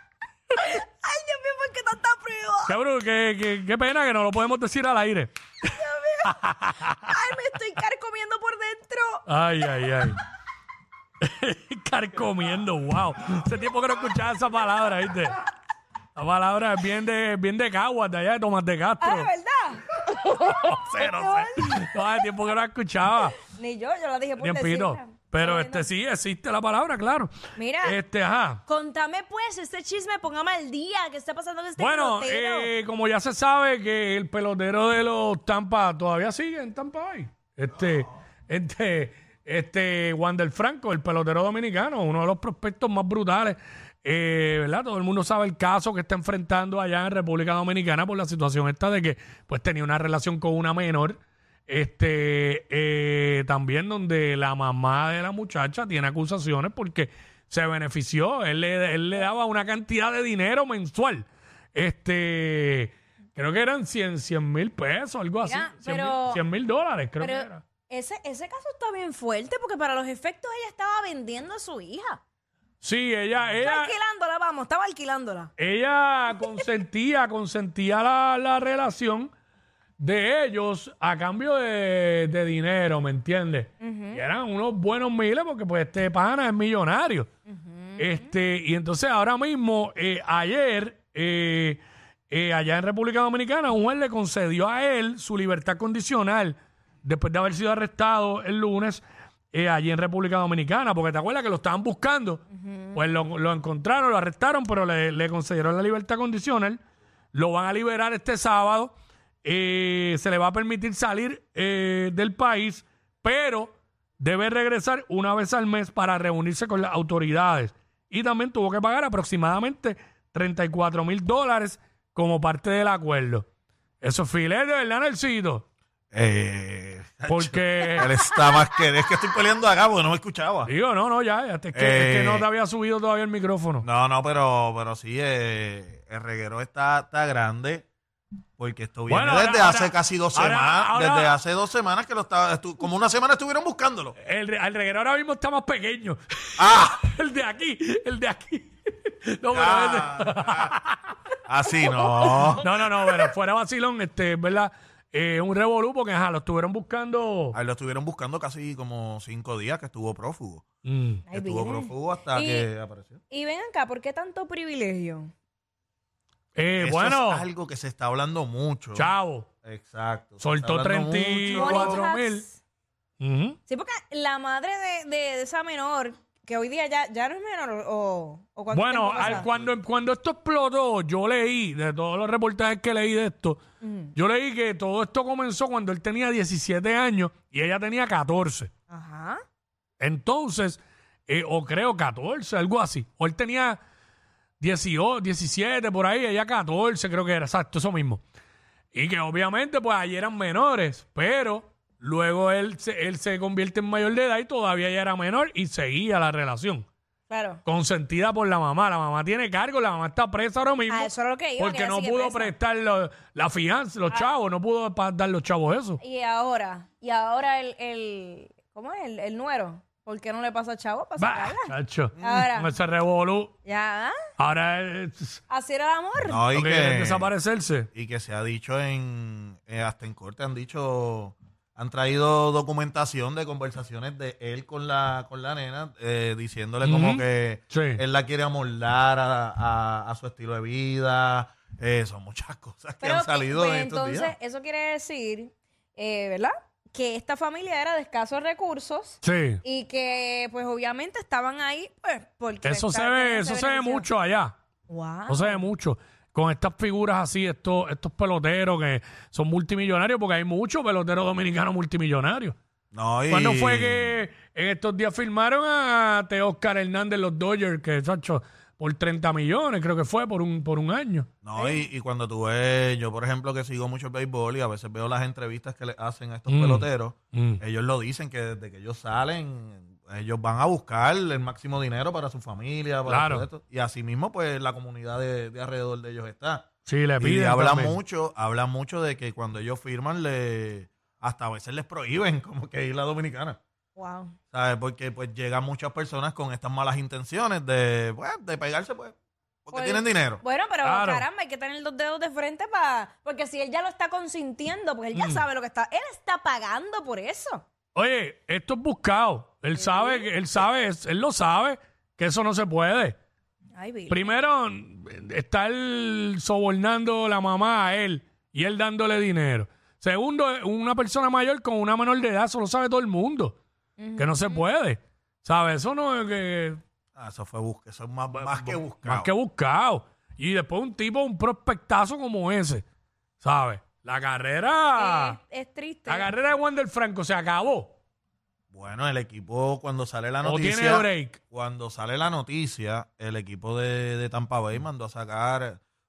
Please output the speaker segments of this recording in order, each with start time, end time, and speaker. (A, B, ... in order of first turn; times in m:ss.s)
0:00.5-0:02.8 A
0:02.7-0:05.3 B
0:05.6-0:09.3 A
0:06.2-0:07.1 B
0:09.3-0:10.2 B
0:11.2-0:15.4 B
0:16.2-0:19.3 B
0:19.0-0:22.1 A
0:20.4-0:23.4 B
0:23.4-0:25.9 A
0:24.4-0:27.3 B
0:27.6-0:28.0 A
0:27.8-0:28.6 B
0:28.6-0:32.7 A
0:31.8-1:07.6 B
1:05.4-1:06.4 A
1:07.2-1:12.2 A
1:12.8-1:13.9 B
1:13.6-1:15.5 A
1:15.6-1:19.3 B
1:16.4-1:16.6 A
1:20.0-1:27.3 B
1:23.8-1:24.2 A
1:27.5-1:28.3 A
1:28.0-1:46.8 B
1:42.5-1:43.0 A
1:47.3-2:03.4 B
2:04.0-2:05.6 B
2:06.1-2:10.7 C
2:07.3-2:08.2 B
2:10.6-2:13.8 B
2:11.7-2:12.5 C
2:13.8-2:17.8 C
2:18.6-2:24.1 C
2:19.1-2:21.4 B
2:24.2-2:31.2 B
2:26.6-2:27.0 C
2:29.5-2:30.8 C
2:31.5-2:33.3 C
2:32.1-2:37.6 B
2:37.5-2:40.6 C
2:40.8-2:41.2 B
2:41.3-2:42.7 A
2:41.3-2:43.2 C
2:43.3-2:45.3 A
2:46.6-2:47.4 B
2:46.8-2:49.1 C
2:49.0-2:49.5 B
2:49.6-2:52.0 C
2:50.4-2:52.4 B
2:51.5-2:52.6 A
2:53.2-2:53.6 B
2:53.7-2:59.5 A
2:58.7-3:03.6 B
3:03.8-3:04.1 A
3:04.1-3:08.7 B
3:08.9-3:09.4 A
3:10.0-3:13.8 B
3:14.6-3:18.2 B
3:18.9-3:26.8 B
3:27.3-3:27.6 A
3:27.6-3:36.0 B
3:30.9-3:32.5 A
3:36.0-3:42.7 A
3:41.2-3:43.5 B
3:42.2-3:42.5 C
3:43.6-3:44.2 A
3:44.4-3:45.4 B
3:45.5-3:46.4 A
3:46.2-3:47.3 C
3:46.5-3:47.9 B
3:47.9-4:04.3 C
3:56.8-3:58.0 B
4:03.0-4:14.1 A
4:09.2-4:09.6 B
4:12.6-4:14.6 B
4:14.9-4:15.6 A
4:15.3-4:22.6 B
4:22.9-4:24.1 C
4:23.3-4:31.3 B
4:31.4-4:46.6 C
4:31.6-4:31.9 A
4:36.5-4:37.6 B
4:43.1-4:43.5 B
4:46.8-4:48.0 B
4:47.2-4:53.6 C
4:54.0-4:54.3 A
4:54.5-5:00.4 C
4:59.7-5:07.6 A
5:00.8-5:01.2 B
5:05.1-5:05.4 B
5:07.9-5:13.1 B
5:09.7-5:10.3 A
5:13.7-5:14.4 A
5:14.1-5:23.6 B
5:24.0-5:24.7 A
5:24.2-5:26.8 B
5:27.2-5:29.3 C
5:28.4-5:32.8 B
5:33.4-5:35.4 B
5:35.0-5:36.3 A
5:36.1-5:37.9 B
5:38.7-5:45.8 C
5:40.4-5:41.4 B